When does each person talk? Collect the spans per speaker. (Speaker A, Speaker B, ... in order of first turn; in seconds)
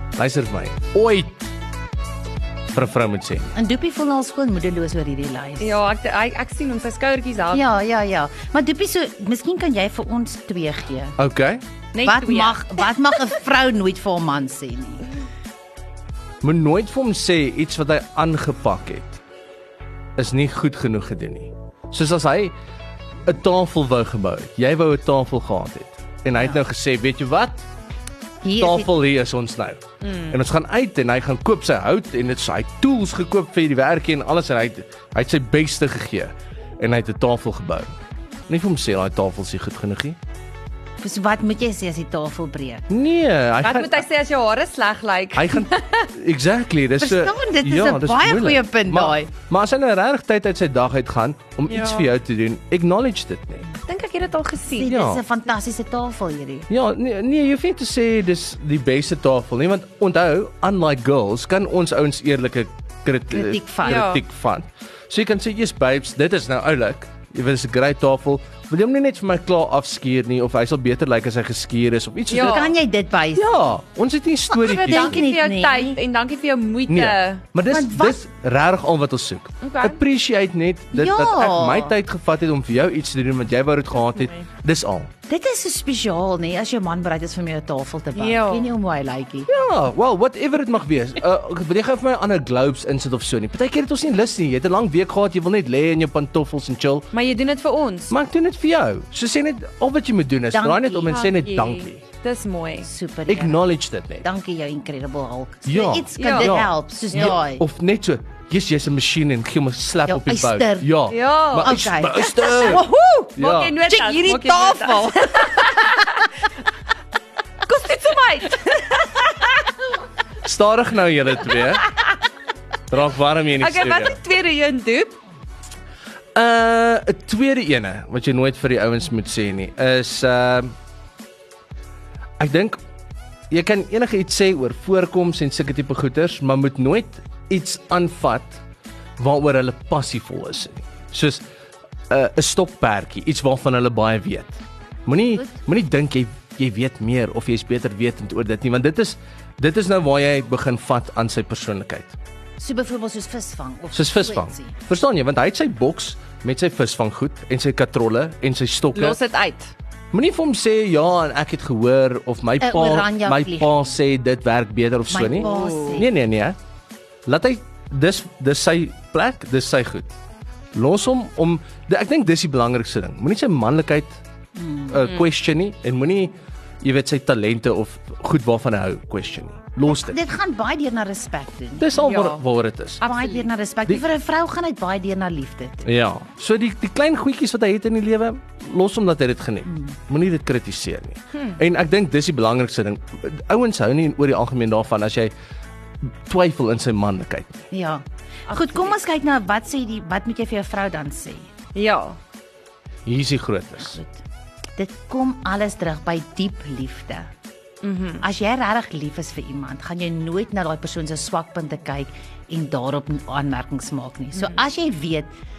Speaker A: 0.2-1.5, 2.7-3.5, 11.2-11.6, 16.4-19.2, 20.2-22.5, 23.3-27.6, 28.6-37.9, 38.5-40.2, 42.9-44.0, 45.4-53.7, 54.8-55.2, 56.7-72.7, 73.3-75.2, 76.9-85.1, 89.5-97.1, 98.1-102.0, 103.3-104.3, 105.7-112.8, 113.4-113.8, 120.4-121.9, 122.9-124.2, 126.3-130.7, 132.4-132.8, 133.5-138.6, 139.2-141.4, 142.1-152.2, 153.9-159.2, 160.1-166.6, 167.3-170.1, 170.7-174.2, 174.9-180.2, 181.8-183.0, 185.9-195.3, 196.2-197.6, 203.1-204.0
Speaker B: 3.5-5.8, 7.5-11.2, 12.0-15.1, 28.4-28.9, 41.0-42.9, 47.0-49.3, 54.7-56.7, 63.3-64.1, 72.3-73.7, 74.5-76.0, 77.7-78.2, 80.9-81.9, 85.3-89.5, 100.5-101.2, 102.8-103.6, 104.2-107.6, 110.1-111.0, 111.6-113.3, 113.9-116.0, 152.6-154.7, 162.6-163.9, 165.1-166.1, 174.6-175.0, 179.8-181.9, 183.0-185.9, 189.7-189.9, 197.7-201.5, 203.8-204.2, 204.8-207.3, 208.2-215.3
Speaker C: 5.6-7.7, 11.9-12.8, 30.0-30.4, 43.6-46.1, 51.7-52.1, 53.9-55.0, 63.8-64.2, 72.3-72.7, 74.6-77.4, 79.6-80.0, 88.2-88.7, 97.1-98.1, 101.1-102.9, 106.2-106.6, 111.1-111.8, 113.4-116.3, 117.7-119.7, 123.6-125.2, 158.9-159.7, 165.4-166.1, 182.0-182.4, 183.0-183.5, 198.5-198.9, 201.8-202.2, 207.8-208.2